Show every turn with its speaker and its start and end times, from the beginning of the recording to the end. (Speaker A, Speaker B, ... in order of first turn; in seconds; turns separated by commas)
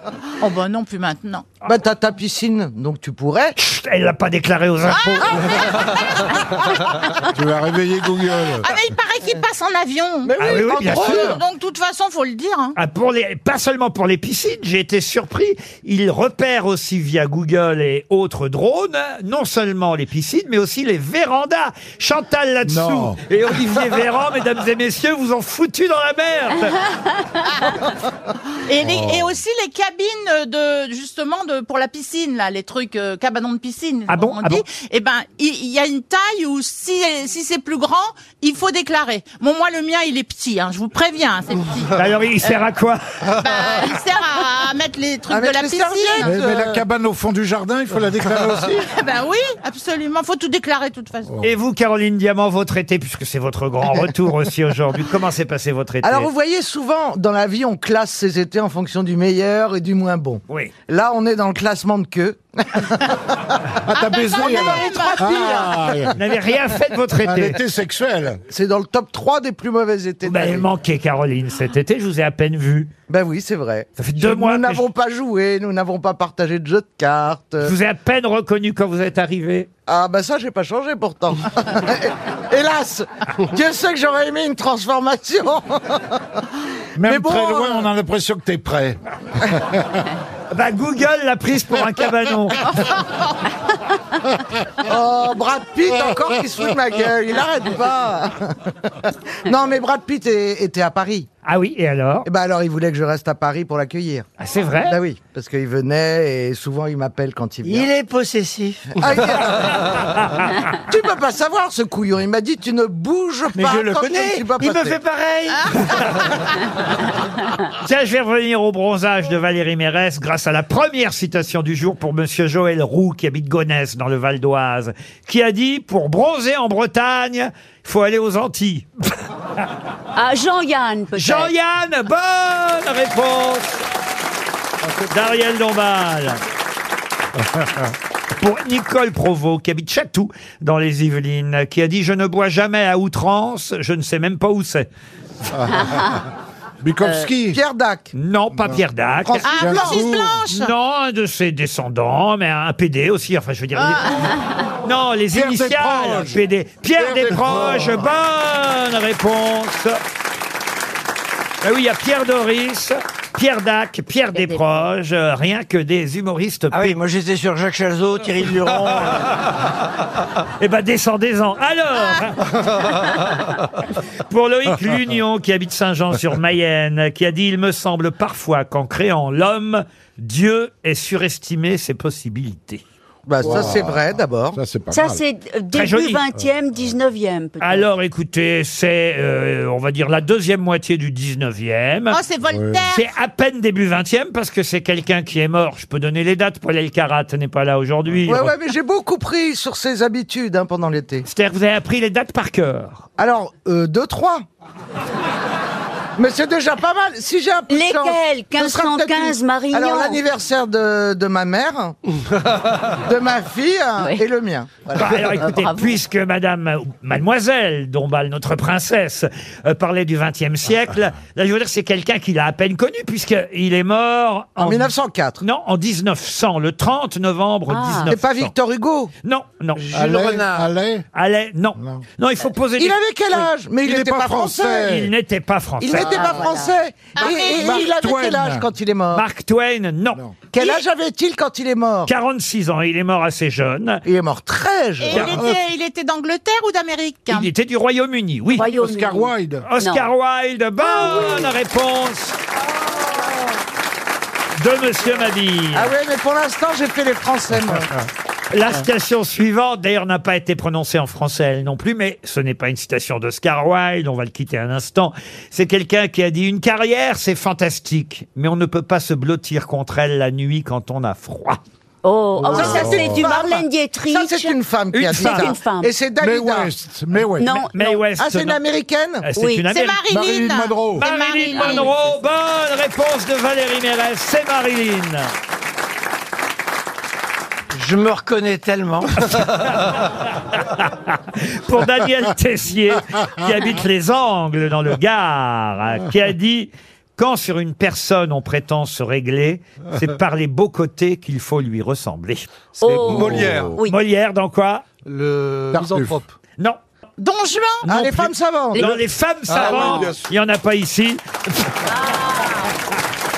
Speaker A: 0.4-1.4, Speaker B: 1.6-3.5, Speaker C: 3.6-5.5, Speaker A: 4.9-6.6, Speaker D: 7.3-8.7, Speaker A: 8.6-12.8, Speaker B: 10.2-11.4, Speaker C: 10.4-11.4, Speaker C: 12.8-26.8, Speaker D: 22.6-23.2, Speaker A: 28.6-42.0, Speaker D: 28.8-29.3, Speaker C: 34.1-34.6, Speaker C: 42.0-43.0, Speaker A: 43.4-46.3, Speaker B: 45.3-46.8, Speaker D: 46.2-48.9, Speaker A: 48.9-51.3, Speaker C: 51.4-56.3, Speaker B: 56.0-63.5, Speaker D: 63.8-66.2, Speaker A: 64.1-65.5, Speaker B: 64.4-66.1, Speaker C: 66.1-67.6, Speaker D: 67.2-68.4, Speaker B: 68.5-70.7, Speaker C: 70.2-72.9, Speaker B: 73.1-77.7, Speaker C: 74.0-74.8, Speaker C: 77.6-79.7, Speaker B: 79.9-86.4, Speaker D: 87.0-90.1, Speaker B: 87.0-87.9, Speaker C: 90.5-92.8, Speaker B: 94.8-101.3, Speaker C: 101.4-102.3, Speaker B: 102.2-104.2, Speaker C: 104.4-105.0, Speaker B: 104.8-107.9, Speaker E: 107.6-109.1, Speaker B: 109.0-110.0, Speaker C: 109.9-110.7, Speaker B: 110.8-115.0, Speaker E: 113.6-115.9, Speaker A: 115.5-116.2, Speaker C: 115.9-116.2, Speaker C: 117.8-128.9, Speaker F: 130.1-131.5, Speaker C: 131.2-133.8, Speaker C: 135.1-136.4, Speaker D: 137.4-137.9, Speaker C: 138.4-144.9, Speaker D: 145.5-146.3, Speaker D: 146.8-147.6, Speaker B: 147.5-148.1, Speaker C: 148.1-160.0, Speaker D: 148.6-148.8, Speaker B: 149.2-150.3, Speaker A: 149.4-150.7, Speaker D: 149.6-150.2, Speaker D: 155.3-156.4, Speaker D: 157.0-158.0, Speaker C: 161.6-167.0, Speaker F: 164.3-164.9, Speaker E: 166.7-169.4, Speaker C: 170.6-172.5, Speaker C: 174.2-182.8, Speaker B: 183.2-184.6, Speaker D: 183.4-185.2, Speaker F: 184.9-187.9, Speaker C: 185.7-186.2, Speaker C: 187.6-192.2, Speaker A: 192.1-193.1, Speaker D: 192.5-192.9, Speaker C: 192.9-198.5, Speaker B: 198.2-201.2, Speaker C: 201.2-203.1, Speaker B: 203.2-204.4, Speaker B: 206.2-212.0, Speaker F: 207.7-210.2, Speaker B: 213.0-215.5, Speaker F: 214.0-214.2, Speaker C: 214.9-228.5, Speaker F: 215.5-215.9, Speaker B: 224.6-225.4, Speaker F: 227.7-228.1, Speaker B: 228.1-229.1, Speaker C: 229.2-230.3, Speaker D: 229.9-231.1, Speaker E: 230.0-230.7, Speaker C: 231.1-233.4, Speaker D: 231.8-232.0, Speaker B: 232.8-234.9, Speaker D: 233.8-235.1, Speaker C: 234.8-236.4, Speaker B: 235.8-239.2, Speaker F: 235.9-236.8, Speaker A: 237.1-237.9, Speaker D: 237.5-238.7, Speaker C: 239.1-240.2, Speaker B: 240.5-242.1, Speaker C: 242.1-244.0, Speaker B: 244.0-245.4, Speaker A: 245.0-247.5, Speaker C: 245.1-245.4, Speaker C: 247.3-248.7, Speaker F: 248.5-250.1, Speaker D: 248.6-249.7, Speaker C: 249.7-252.4, Speaker F: 251.0-251.4, Speaker C: 254.6-255.9, Speaker B: 255.7-257.9, Speaker D: 257.6-258.1, Speaker C: 258.5-271.6, Speaker F: 272.0-274.6, Speaker D: 272.4-273.3, Speaker B: 272.4-276.7, Speaker C: 274.9-275.6, Speaker F: 275.1-275.9, Speaker D: 276.2-277.6, Speaker F: 277.4-277.8, Speaker C: 277.7-278.6, Speaker B: 278.2-279.3, Speaker C: 279.2-280.0, Speaker F: 279.4-279.7, Speaker A: 279.7-281.9, Speaker D: 280.1-281.0, Speaker C: 281.0-285.3, Speaker F: 281.6-281.9, Speaker E: 287.7-289.4, Speaker C: 289.6-302.4, Speaker G: 302.8-303.8, Speaker F: 302.8-303.9, Speaker D: 303.1-303.8, Speaker C: 303.8-304.8, Speaker G: 305.0-306.3, Speaker D: 305.7-306.2, Speaker A: 307.2-307.9, Speaker C: 307.8-311.7, Speaker B: 307.9-308.9, Speaker G: 309.5-310.3, Speaker F: 309.6-310.1, Speaker F: 311.9-312.7